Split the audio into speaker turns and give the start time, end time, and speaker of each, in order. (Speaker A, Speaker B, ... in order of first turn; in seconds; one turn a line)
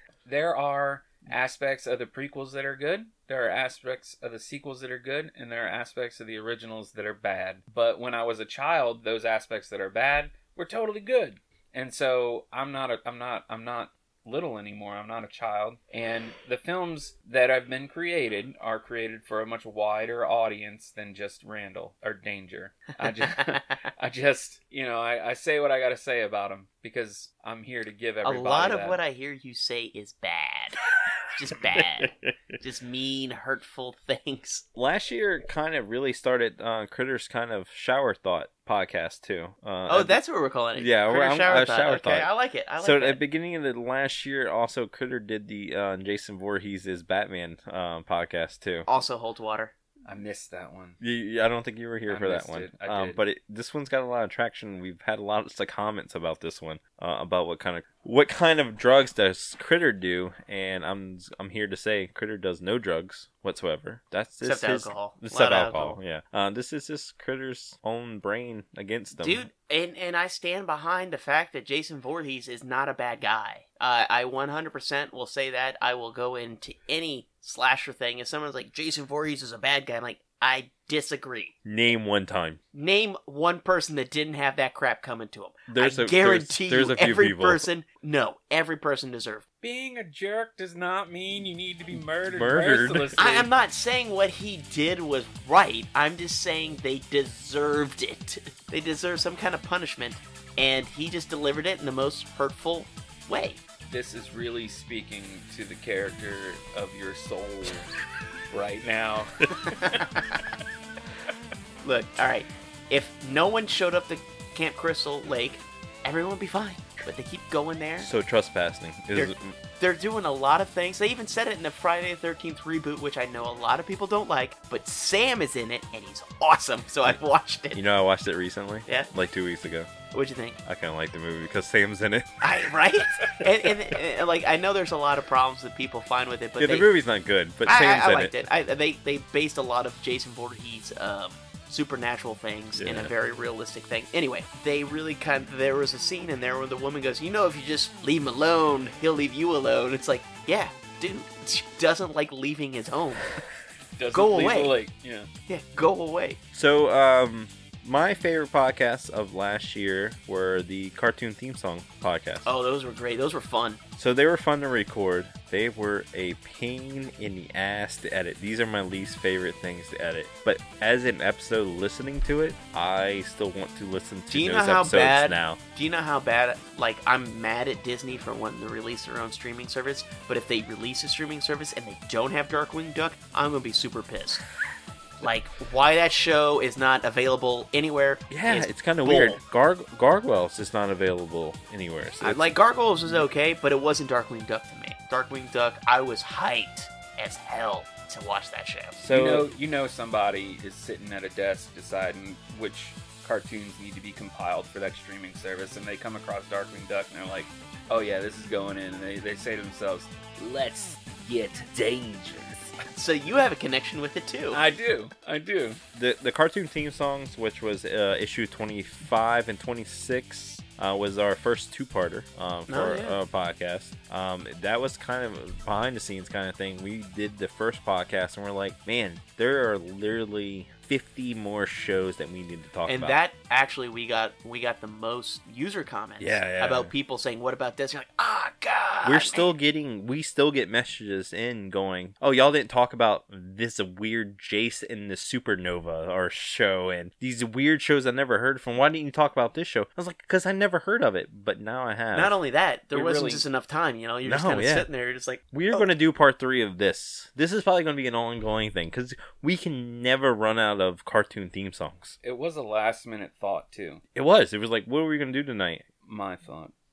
Speaker A: 0.3-29.0
Speaker B: 28.2-30.8
Speaker B: 31.3-34.6
Speaker C: 34.8-40.2
Speaker B: 39.9-43.2
Speaker C: 40.8-48.9
Speaker B: 48.9-49.7
Speaker A: 50.1-51.0
Speaker C: 51.0-69.5
Speaker A: 52.1-53.2
Speaker B: 64.4-66.0
Speaker B: 69.2-81.5
Speaker C: 81.7-82.6
Speaker B: 82.7-89.4
Speaker C: 85.7-87.7
Speaker A: 89.6-93.5
Speaker C: 92.3-93.2
Speaker B: 93.2-103.6
Speaker A: 103.9-107.9
Speaker A: 108.5-110.0
Speaker B: 111.8-118.1
Speaker C: 118.0-119.5
Speaker B: 119.1-127.8
Speaker C: 127.7-129.9
Speaker B: 130.1-130.6
Speaker C: 130.7-132.4
Speaker B: 132.4-136.9
Speaker C: 136.6-138.4
Speaker B: 137.7-153.3
Speaker C: 142.8-143.1
Speaker A: 154.0-155.3
Speaker B: 154.1-154.8
Speaker B: 155.5-156.4
Speaker C: 156.5-162.5
Speaker B: 162.4-163.8
Speaker C: 164.0-175.6
Speaker B: 174.3-184.4
Speaker B: 185.2-189.4
Speaker C: 188.3-192.5
Speaker B: 192.2-199.0
Speaker C: 199.0-199.5
Speaker A: 199.1-212.8
Speaker B: 212.9-214.6
Speaker A: 214.5-215.8
Speaker C: 215.9-233.2
Speaker B: 222.7-223.2
Speaker B: 232.9-239.5
Speaker C: 236.2-236.9
Speaker C: 239.1-252.4
Speaker B: 252.1-255.9
Speaker A: 252.9-253.4
Speaker C: 254.2-254.9
Speaker C: 255.5-262.2
Speaker A: 262.2-264.0
Speaker C: 264.1-265.9
Speaker A: 266.0-266.7